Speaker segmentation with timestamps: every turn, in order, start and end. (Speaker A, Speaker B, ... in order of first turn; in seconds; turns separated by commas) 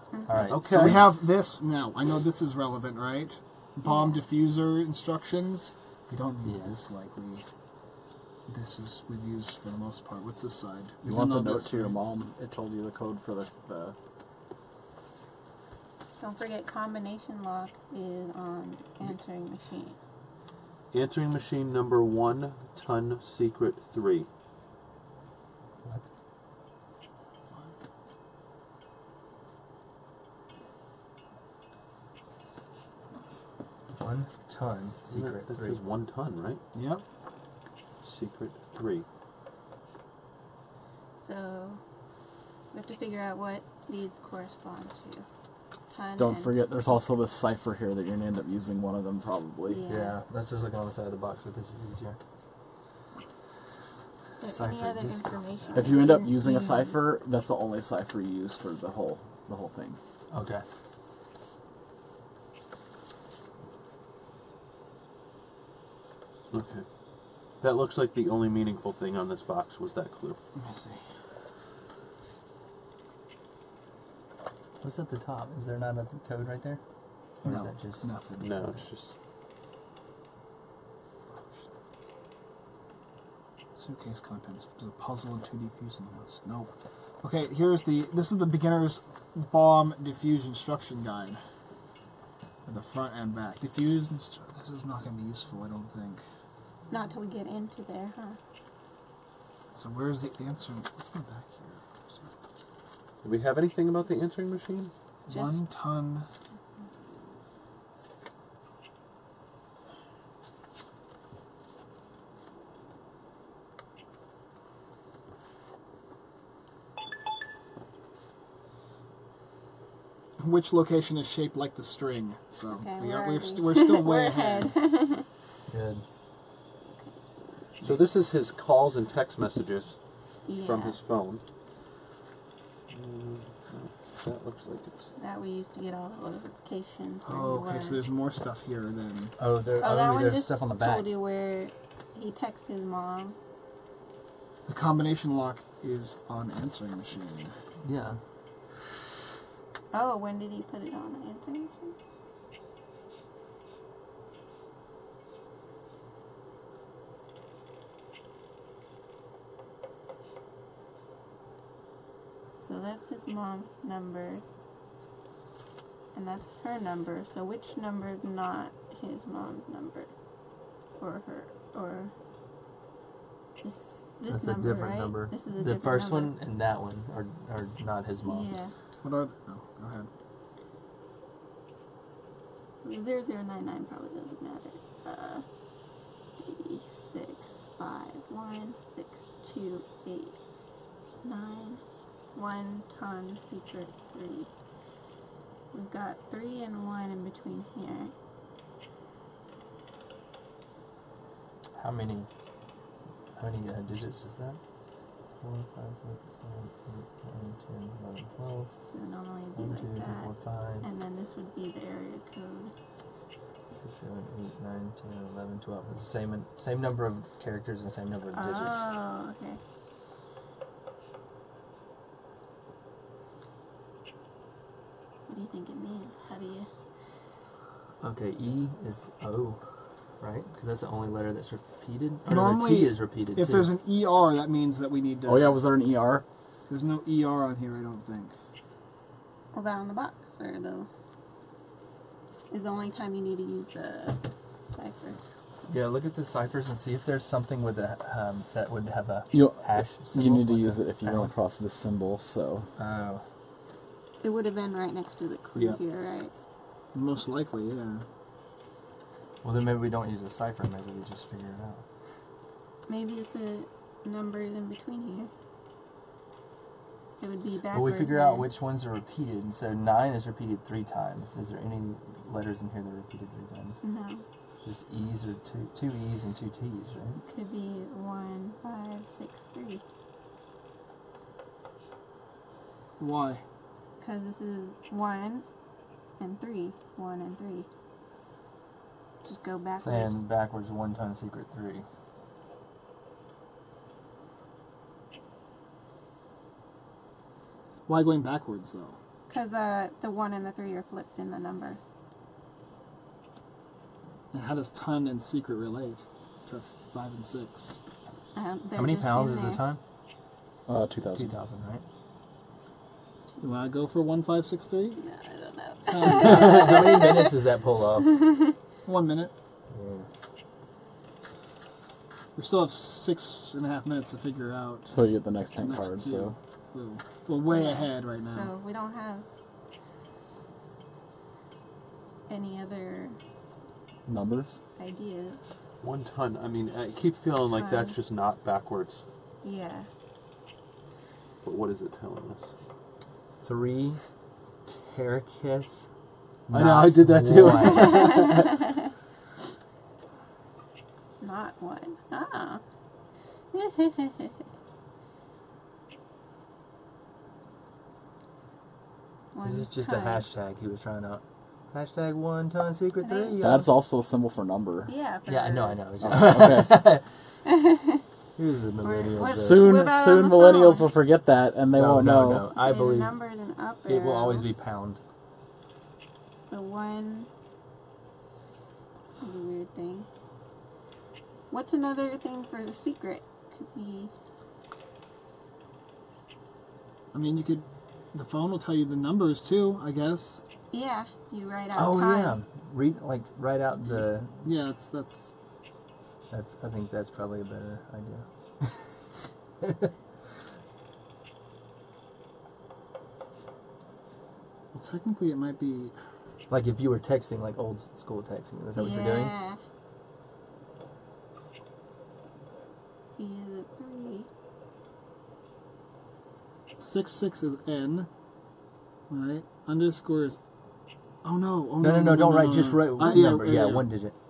Speaker A: 0.1-0.4, Speaker B: 0.2-1.1, Speaker C: 0.5-1.1, Speaker D: 0.7-7.4, Speaker A: 3.8-4.2, Speaker B: 6.4-6.8, Speaker D: 8.5-12.0, Speaker E: 11.0-13.9, Speaker A: 16.2-20.0, Speaker C: 20.9-24.3, Speaker B: 34.0-35.8, Speaker C: 35.1-36.6, Speaker D: 36.7-37.0, Speaker C: 38.0-39.0, Speaker A: 41.2-41.8, Speaker A: 42.7-45.2, Speaker A: 45.9-47.0, Speaker E: 46.2-49.8, Speaker A: 49.7-50.1, Speaker B: 49.9-52.2, Speaker A: 54.4-57.0, Speaker B: 54.5-56.0, Speaker E: 55.7-60.0, Speaker B: 60.3-60.6, Speaker C: 66.5-66.9, Speaker C: 67.6-70.4, Speaker D: 70.5-71.0, Speaker B: 74.8-76.8, Speaker B: 77.4-78.1, Speaker D: 77.4-78.7, Speaker C: 78.4-79.1, Speaker D: 83.8-91.4, Speaker D: 92.7-96.2, Speaker A: 96.9-98.4, Speaker D: 99.7-102.3, Speaker C: 103.2-104.9, Speaker A: 105.3-105.6, Speaker D: 105.3-106.2, Speaker D: 120.4-124.7, Speaker A: 122.7-125.3, Speaker B: 125.7-126.0, Speaker C: 127.8-131.4, Speaker A: 130.4-131.0, Speaker C: 132.9-135.1, Speaker A: 135.2-138.0, Speaker D: 137.2-139.3, Speaker B: 139.4-141.1, Speaker A: 139.8-143.3, Speaker D: 144.7-147.5, Speaker B: 147.8-148.2, Speaker A: 149.9-151.9, Speaker A: 162.6-164.4, Speaker A: 166.1-170.1, Speaker A: 171.0-172.1, Speaker A: 173.6-176.3, Speaker B: 174.3-178.5, Speaker A: 178.2-178.7, Speaker D: 179.0-180.1, Speaker A: 182.8-185.4, Speaker A: 186.4-190.3, Speaker A: 191.2-191.8, Speaker A: 192.3-194.5, Speaker A: 195.7-198.1, Speaker B: 201.7-202.3, Speaker B: 203.3-204.6, Speaker B: 205.4-208.7, Speaker A: 208.9-210.3, Speaker B: 209.6-210.8, Speaker A: 210.8-212.7, Speaker B: 213.7-218.9, Speaker A: 218.3-219.6, Speaker A: 225.3-226.7, Speaker B: 228.0-229.6, Speaker B: 230.2-233.7, Speaker D: 232.2-235.7, Speaker E: 235.2-236.2, Speaker D: 236.7-238.3, Speaker A: 239.5-240.9, Speaker A: 242.5-244.2, Speaker A: 244.7-245.2, Speaker B: 245.7-251.3, Speaker E: 249.3-252.7, Speaker B: 252.8-253.2, Speaker A: 254.2-256.3, Speaker D: 256.9-258.0, Speaker B: 259.4-261.8, Speaker A: 262.9-265.3, Speaker A: 267.2-268.5, Speaker B: 267.7-273.8, Speaker A: 273.8-274.2, Speaker B: 274.6-277.2, Speaker A: 277.2-279.8, Speaker D: 283.0-283.4, Speaker A: 284.0-285.4, Speaker A: 286.2-287.7, Speaker A: 289.2-290.1, Speaker B: 289.8-291.9, Speaker D: 297.9-299.0, Speaker A: 299.3-301.8, Speaker D: 304.3-307.8, Speaker A: 308.3-309.6, Speaker B: 308.7-309.8, Speaker E: 310.7-311.3, Speaker B: 311.1-311.8, Speaker D: 313.4-315.0, Speaker A: 315.0-317.4, Speaker D: 315.8-316.8, Speaker B: 316.1-318.1, Speaker A: 318.0-318.5, Speaker D: 318.8-319.3, Speaker B: 319.7-320.1, Speaker D: 322.4-328.5, Speaker E: 324.9-326.3, Speaker A: 327.5-329.2, Speaker A: 332.3-333.2, Speaker E: 334.1-334.6, Speaker A: 334.8-335.4, Speaker C: 335.8-339.0, Speaker A: 337.6-337.9, Speaker A: 339.4-339.9, Speaker C: 341.4-342.5, Speaker B: 343.4-344.0, Speaker B: 344.6-345.9, Speaker B: 346.5-348.3, Speaker C: 346.5-348.5, Speaker A: 347.6-348.6, Speaker A: 351.2-352.6, Speaker A: 353.5-354.3, Speaker A: 359.3-360.2, Speaker B: 359.4-363.7, Speaker A: 363.0-363.4, Speaker E: 363.4-364.9, Speaker A: 364.9-366.2, Speaker B: 365.3-367.0, Speaker E: 366.0-366.8, Speaker A: 367.4-368.0, Speaker B: 368.4-369.7, Speaker A: 368.8-370.9, Speaker E: 369.2-372.5, Speaker B: 371.7-373.2, Speaker A: 372.5-374.4, Speaker B: 373.9-375.0, Speaker A: 376.5-377.3, Speaker A: 379.2-380.1, Speaker A: 381.5-384.1, Speaker D: 387.1-390.4, Speaker A: 390.7-392.4, Speaker B: 391.7-394.3, Speaker D: 394.4-395.3, Speaker B: 396.3-399.9, Speaker D: 404.7-405.9, Speaker B: 406.5-409.3, Speaker A: 408.7-409.6, Speaker A: 413.2-414.3, Speaker D: 416.8-418.1, Speaker D: 419.1-420.4, Speaker D: 421.2-423.9, Speaker B: 421.8-424.1